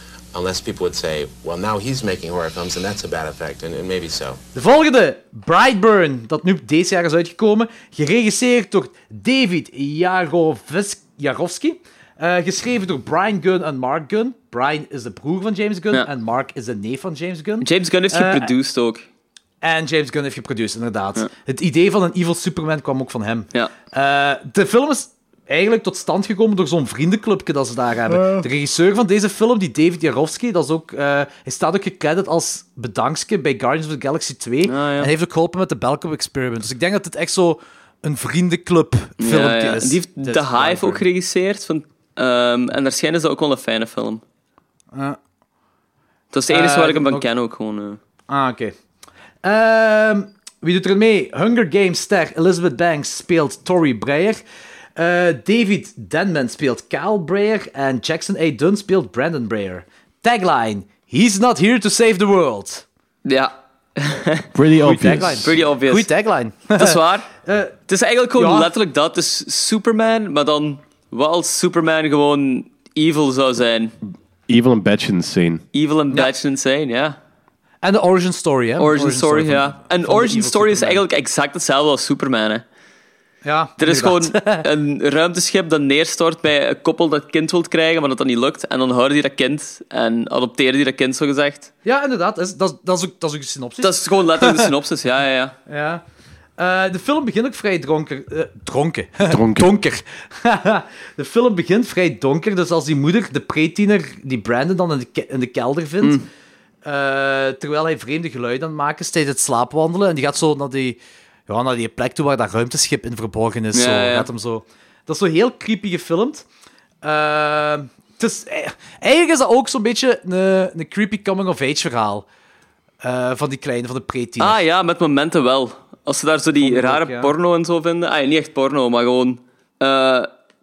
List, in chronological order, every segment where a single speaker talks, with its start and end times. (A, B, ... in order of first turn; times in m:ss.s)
0:00.3-0:04.4 A
0:04.6-0:18.5 B
0:17.6-0:19.0 C
0:19.6-0:41.0 B
0:34.7-0:35.1 C
0:39.2-0:44.2 C
0:44.9-0:45.2 B
0:46.3-0:48.0 C
0:46.5-0:47.3 B
0:48.3-0:48.8 B
0:49.4-0:54.4 B
0:55.0-1:02.8 B
1:03.2-1:04.5 C
1:04.5-1:05.5 D
1:04.8-1:07.8 B
1:05.4-1:06.1 C
1:06.8-1:07.3 C
1:07.9-1:13.9 C
1:08.4-1:08.7 B
1:14.5-1:15.6 D
1:15.7-1:17.2 C
1:17.8-1:21.0 B
1:18.8-1:22.6 C
1:23.4-1:24.6 B
1:23.8-1:31.7 C
1:31.8-1:34.7 B
1:33.8-1:35.6 C
1:35.7-1:36.0 B
1:36.6-1:46.2 B
1:39.3-1:39.7 D
1:46.8-1:56.4 B
1:53.7-1:54.3 C
1:57.0-2:02.3 B
2:03.0-2:04.6 B
2:04.4-2:10.3 C
2:06.6-2:07.3 B